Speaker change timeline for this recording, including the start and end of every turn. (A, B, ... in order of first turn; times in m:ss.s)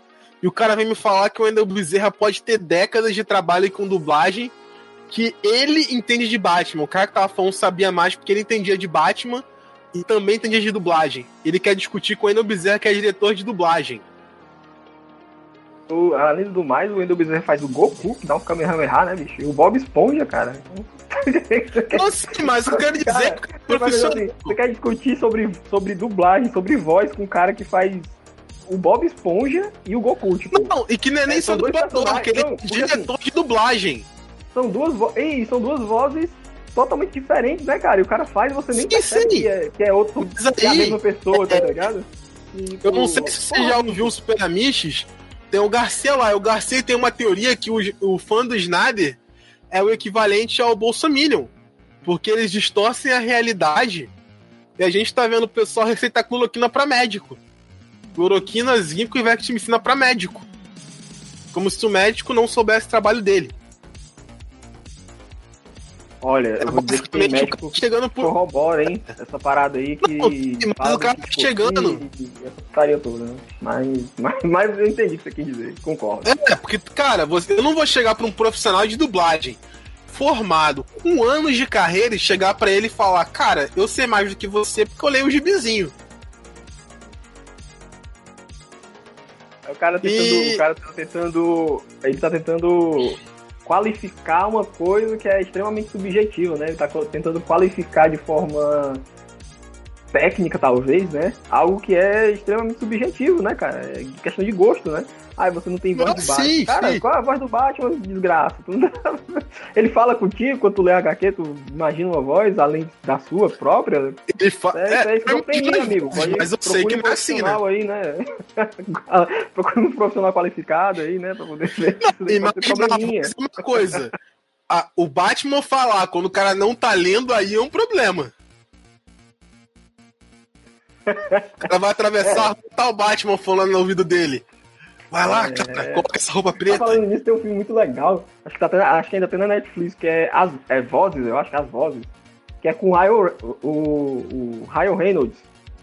0:00.4-0:04.5 A
0:05.1-0:14.0 A
0:15.9-0:30.7 B
0:21.9-0:24.6 A
0:30.5-0:34.0 A
0:31.3-0:33.1 B
0:34.5-0:44.1 B
0:38.7-0:39.5 A
0:40.2-0:41.8 A
0:42.8-0:49.2 A
0:49.7-0:51.5 A
0:52.0-0:54.1 A
0:54.8-0:57.4 A
0:58.1-1:00.4 A
1:01.5-1:03.5 A
1:06.2-1:16.3 B
1:06.6-1:08.3 A
1:10.0-1:12.0 A
1:16.2-1:25.9 A
1:29.6-1:39.0 B
1:30.0-1:30.6 A
1:40.1-2:03.3 B
1:45.9-1:47.0 A
1:54.3-1:57.6 A
2:02.0-2:04.1 A
2:04.7-2:08.3 A
2:11.1-2:11.7 B
2:11.6-2:14.4 A
2:12.2-2:12.5 B
2:15.1-2:17.0 A
2:15.2-2:16.1 B
2:16.7-2:22.1 B
2:22.6-2:25.4 B